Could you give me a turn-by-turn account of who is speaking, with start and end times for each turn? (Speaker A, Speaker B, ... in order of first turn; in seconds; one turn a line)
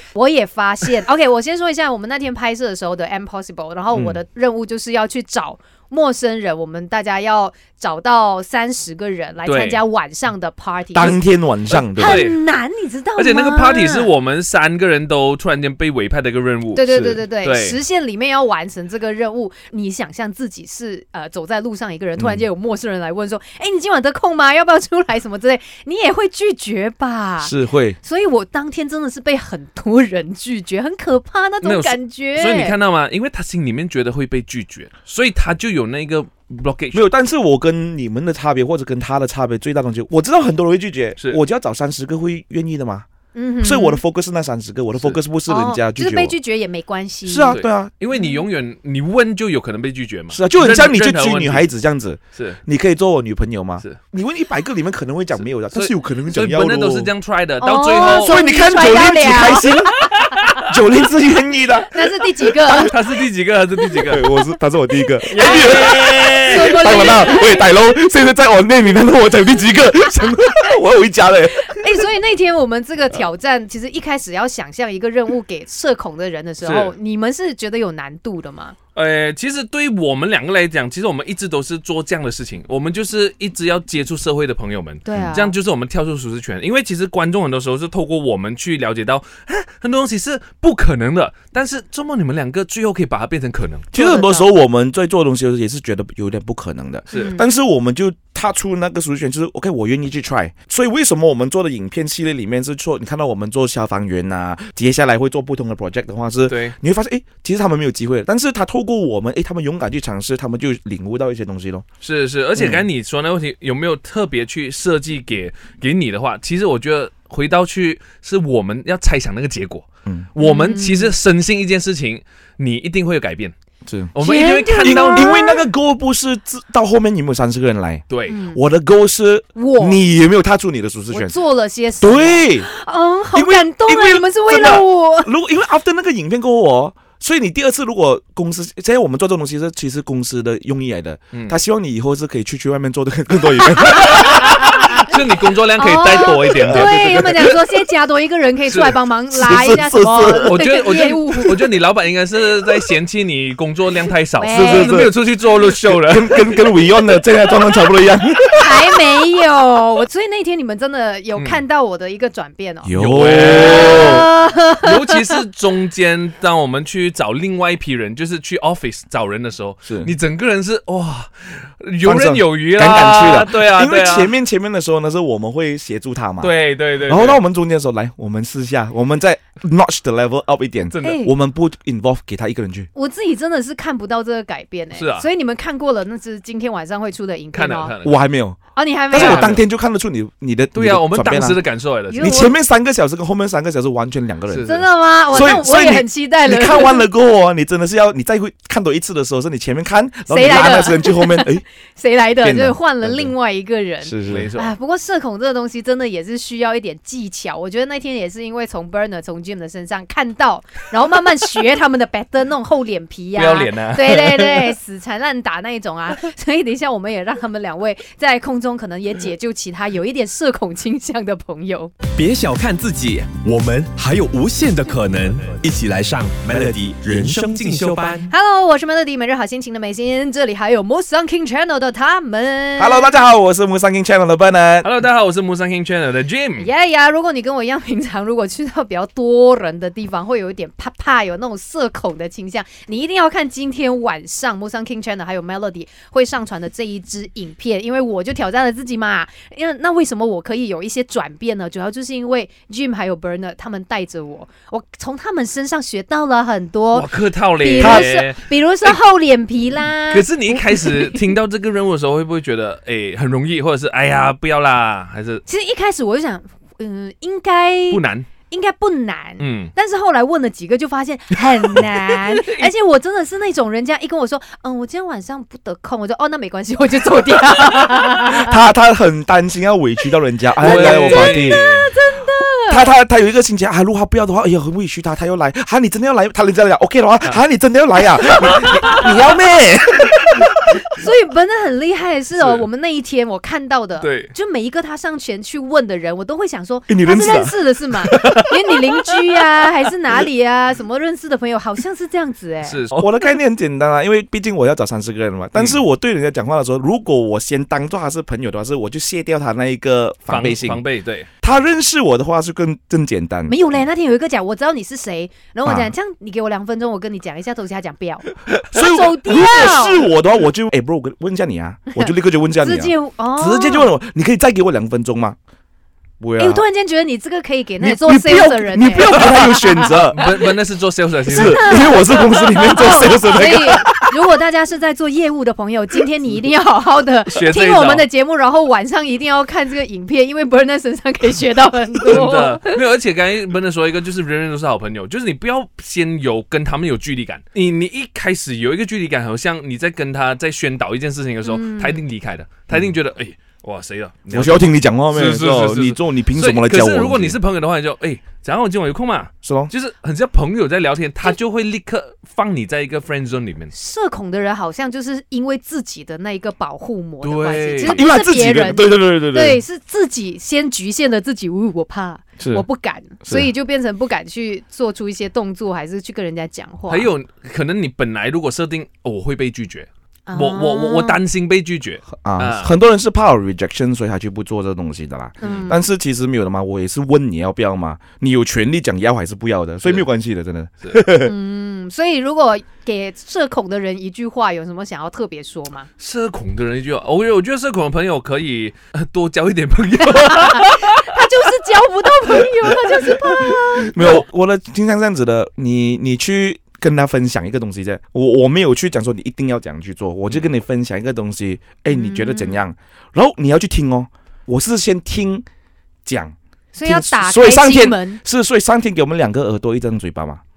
Speaker A: 0.1-11.2
Speaker B: 9.4-9.8
Speaker C: 10.9-12.2
Speaker A: 11.8-14.1
Speaker B: 12.0-12.4
Speaker B: 13.2-17.8
Speaker A: 16.7-32.7
Speaker C: 22.2-22.4
Speaker C: 27.4-28.0
Speaker B: 31.6-37.0
Speaker C: 36.9-43.0
Speaker A: 43.3-44.0
Speaker C: 43.6-46.4
Speaker A: 45.5-47.6
Speaker C: 47.3-47.9
Speaker B: 47.5-51.7
Speaker A: 48.1-48.4
Speaker C: 50.3-57.1
Speaker B: 52.3-52.6
Speaker B: 55.5-58.4
Speaker A: 57.6-59.7
Speaker C: 58.0-59.9
Speaker B: 60.0-60.7
Speaker C: 60.6-62.9
Speaker A: 61.9-62.9
Speaker B: 62.9-64.2
Speaker C: 64.1-72.1
Speaker B: 65.3-67.3
Speaker A: 65.3-67.7
Speaker A: 71.7-78.8
Speaker B: 76.6-76.9
Speaker B: 78.9-93.9
Speaker A: 85.0-85.5
Speaker C: 85.1-85.4
Speaker C: 93.9-111.8
Speaker A: 93.9-94.5
Speaker B: 97.1-97.3
Speaker A: 97.1-97.4
Speaker B: 106.5-106.7
Speaker B: 112.0-123.5
Speaker C: 112.6-112.8
Speaker A: 120.4-121.1
Speaker C: 123.9-124.1
Speaker B: 124.1-125.4
Speaker A: 124.2-125.6
Speaker C: 124.8-131.3
Speaker B: 128.1-128.3
Speaker A: 128.3-128.6
Speaker A: 129.6-130.0
Speaker A: 131.1-135.3
Speaker C: 132.0-132.7
Speaker C: 133.3-144.9
Speaker A: 144.0-145.1
Speaker B: 144.6-147.0
Speaker A: 145.8-151.6
Speaker C: 146.6-147.6
Speaker B: 148.7-149.0
Speaker C: 149.3-150.6
Speaker B: 150.4-156.6
Speaker A: 154.4-155.0
Speaker C: 154.5-155.2
Speaker C: 155.8-159.0
Speaker A: 158.6-162.9
Speaker C: 162.8-164.2
Speaker B: 162.9-164.2
Speaker A: 163.4-165.2
Speaker B: 164.8-174.3
Speaker C: 172.0-182.9
Speaker B: 176.4-177.4
Speaker B: 180.9-181.2
Speaker A: 181.0-181.3
Speaker A: 182.9-187.9
Speaker B: 184.9-185.3
Speaker B: 187.5-188.2
Speaker C: 188.0-188.6
Speaker A: 188.7-189.6
Speaker C: 189.1-191.6
Speaker B: 189.1-189.6
Speaker B: 190.7-192.5
Speaker A: 192.1-192.5
Speaker C: 192.2-194.7
Speaker B: 194.5-194.8
Speaker A: 194.6-197.0
Speaker C: 195.3-201.6
Speaker A: 200.3-221.9
Speaker C: 202.4-203.3
Speaker C: 204.0-204.5
Speaker B: 204.2-204.7
Speaker B: 213.3-214.8
Speaker D: 222.1-228.3
Speaker A: 228.3-233.1
Speaker C: 232.8-234.9
Speaker B: 234.8-236.7
Speaker A: 236.6-261.2
Speaker B: 256.9-258.9
Speaker C: 257.8-258.1
Speaker B: 260.1-265.4
Speaker A: 265.4-278.6
Speaker B: 267.9-268.3
Speaker B: 269.4-269.7
Speaker B: 271.7-272.7
Speaker C: 278.2-281.6
Speaker B: 280.6-281.9
Speaker A: 280.6-282.9
Speaker C: 282.7-290.5
Speaker B: 288.6-289.1
Speaker A: 290.9-302.8
Speaker B: 292.4-292.6
Speaker B: 294.0-294.3
Speaker C: 296.9-298.4
Speaker B: 302.6-303.1
Speaker C: 302.9-310.8
Speaker B: 305.5-305.8
Speaker B: 310.3-311.3
Speaker C: 311.4-313.8
Speaker A: 313.5-320.1
Speaker C: 315.6-315.9
Speaker C: 318.7-325.4
Speaker A: 321.9-323.9
Speaker C: 326.2-326.6
Speaker A: 326.4-330.3
Speaker C: 327.8-330.2
Speaker B: 329.1-329.5
Speaker B: 330.0-331.9
Speaker C: 331.3-334.1
Speaker A: 331.3-342.8
Speaker B: 337.3-338.1
Speaker B: 342.1-363.7
Speaker A: 351.4-352.0
Speaker C: 354.3-357.4
Speaker C: 359.4-359.7
Speaker A: 363.7-377.1
Speaker B: 367.2-368.1
Speaker C: 367.8-369.6
Speaker C: 372.4-372.6
Speaker C: 373.2-373.5
Speaker B: 376.9-382.8
Speaker A: 380.3-381.2
Speaker C: 382.2-391.3
Speaker A: 385.4-385.8
Speaker B: 385.4-385.7
Speaker A: 391.2-395.9
Speaker B: 396.0-401.3
Speaker A: 400.3-404.2
Speaker C: 403.8-415.4
Speaker A: 411.9-412.6
Speaker C: 416.1-416.3
Speaker A: 416.7-418.2
Speaker C: 416.8-420.4